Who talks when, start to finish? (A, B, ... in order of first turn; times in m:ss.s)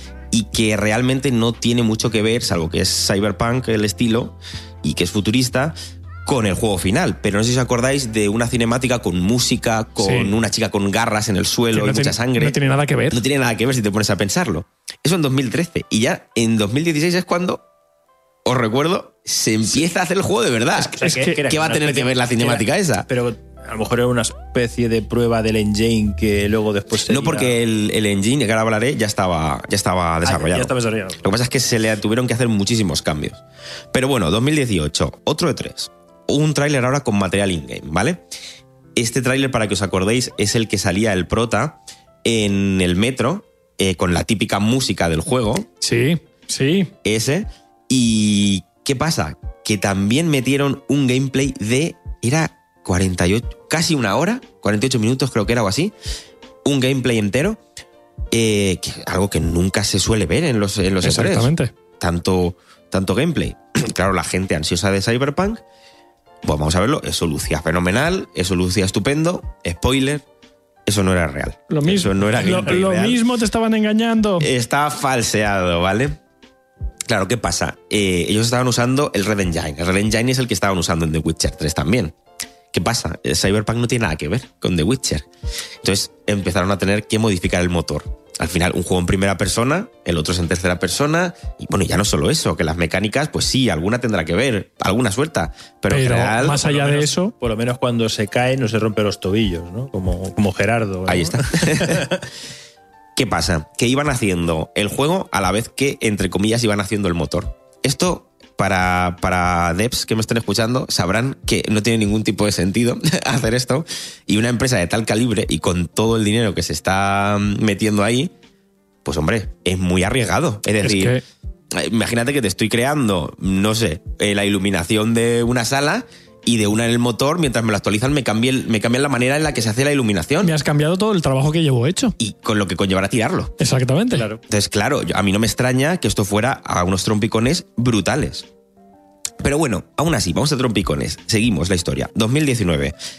0:00.3-0:12.6 A
0:10.0-0:10.3 B
0:11.7-0:13.2 B
0:13.1-0:17.6 A
0:18.4-0:23.1 A
0:20.8-0:21.4 B
0:21.0-0:27.6 C
0:27.1-0:30.7 A
0:30.2-0:31.4 C
0:31.2-0:33.4 A
0:33.9-0:38.2 A
0:39.0-0:45.7 A
0:45.8-0:46.9 B
0:47.0-0:55.9 A
0:56.6-0:57.6 A
0:58.3-1:05.6 A
1:01.0-1:01.7 B
1:06.4-1:10.2 A
1:10.9-1:13.2 A
1:11.7-1:14.5 B
1:14.4-1:16.2 A
1:17.1-1:22.2 A
1:22.7-1:25.3 A
1:25.8-1:36.7 A
1:35.9-1:37.3 B
1:36.5-1:42.3 C
1:41.1-1:42.1 A
1:43.2-1:58.3 A
1:59.0-2:01.2 A
2:00.8-2:01.2 B
2:01.7-2:10.5 A
2:10.4-2:12.2 B
2:12.2-2:13.5 A
2:13.6-2:14.3 B
2:14.1-2:14.4 C
2:14.5-2:18.5 A
2:19.4-2:22.9 A